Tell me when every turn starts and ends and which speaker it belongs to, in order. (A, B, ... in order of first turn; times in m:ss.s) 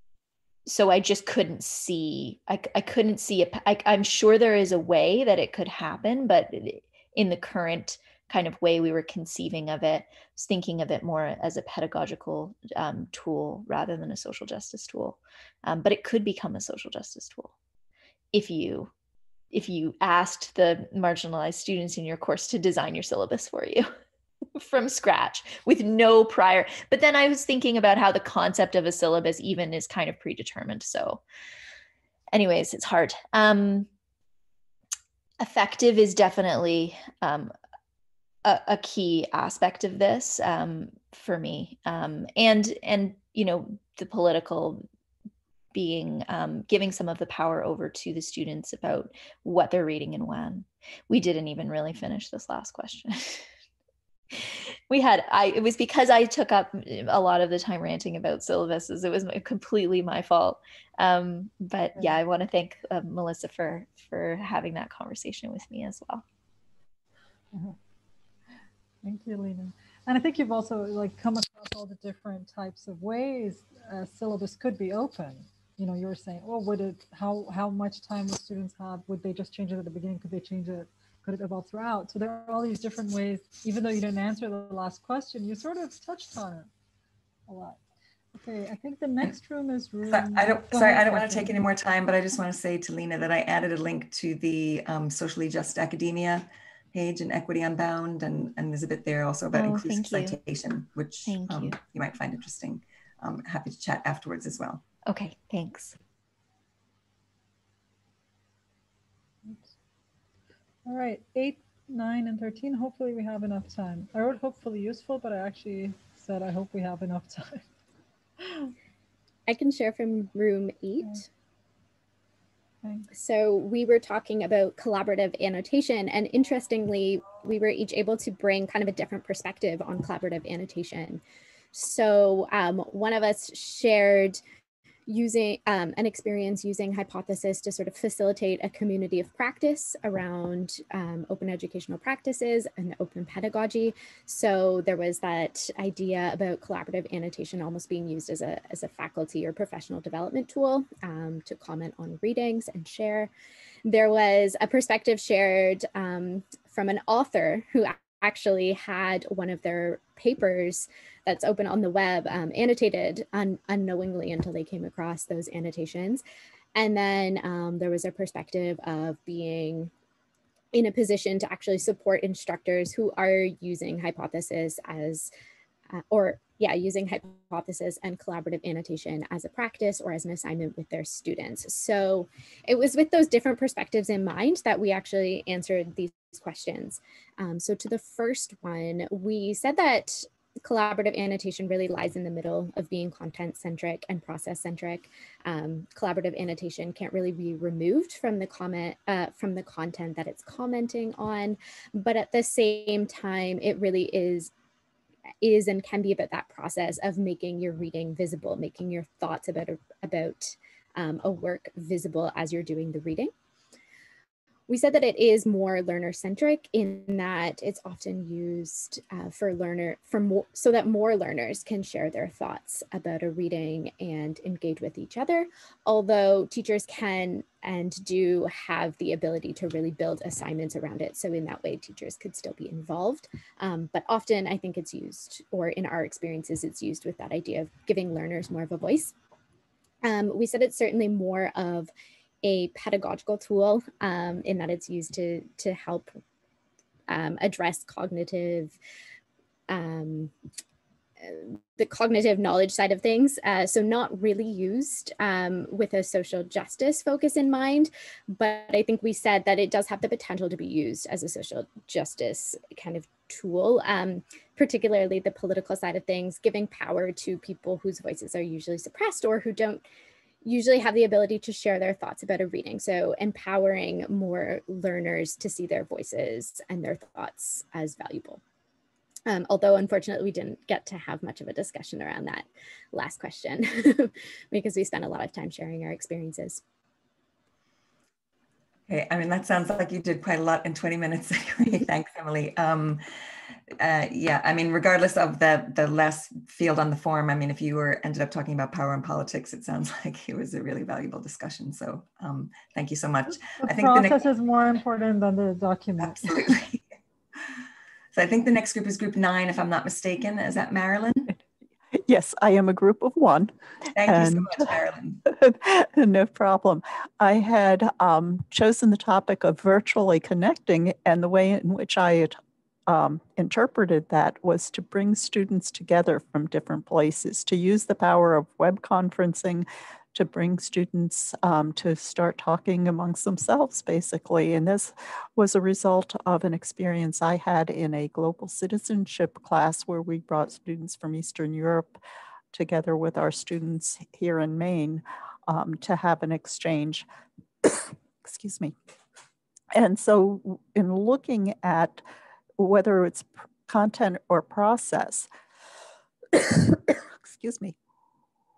0:00.6-0:17.5 A
0:18.3-0:18.9 A
0:19.5-0:23.9 A
0:24.5-0:31.2 A
0:32.3-0:33.9 A
0:35.4-0:37.5 A
0:38.4-0:44.8 A
0:45.7-0:53.5 A
0:54.3-1:06.2 A
1:07.5-1:07.8 B
1:09.0-1:26.7 B
1:27.5-1:27.8 B
1:28.3-1:31.5 B
1:30.1-1:44.8 C
1:39.5-1:40.4 A
1:41.2-1:41.8 A
1:45.0-1:46.0 A
1:49.4-1:49.7 B
1:50.8-1:57.7 B
1:58.4-1:58.7 B
1:59.5-2:01.2 D
2:02.8-2:03.1 B
2:03.1-2:11.2 D
2:11.7-2:14.4 D
2:15.1-2:33.3 D
2:33.8-2:46.2 D
2:46.8-2:49.9 D
2:50.7-2:55.3 D
2:55.9-3:24.5 D
3:25.4-3:33.3 D
3:34.7-3:59.1 D
4:00.0-4:01.9 D
4:02.4-4:06.1 D
4:07.1-4:08.8 D
4:09.7-4:10.3 D
4:11.2-4:29.8 D
4:30.4-4:38.4 D
4:39.2-4:46.6 D
4:48.9-4:53.0 C
4:53.8-5:04.2 C
5:03.3-5:06.5 B
5:06.0-5:06.8 C
5:08.1-5:11.3 C
5:11.9-5:13.5 E
5:13.9-5:15.2 C
5:14.0-5:14.7 E
5:15.2-5:42.0 E
5:42.5-5:47.0 E
5:47.6-5:48.8 E
5:49.7-5:52.0 E
5:52.6-5:55.3 E
5:56.3-5:57.8 E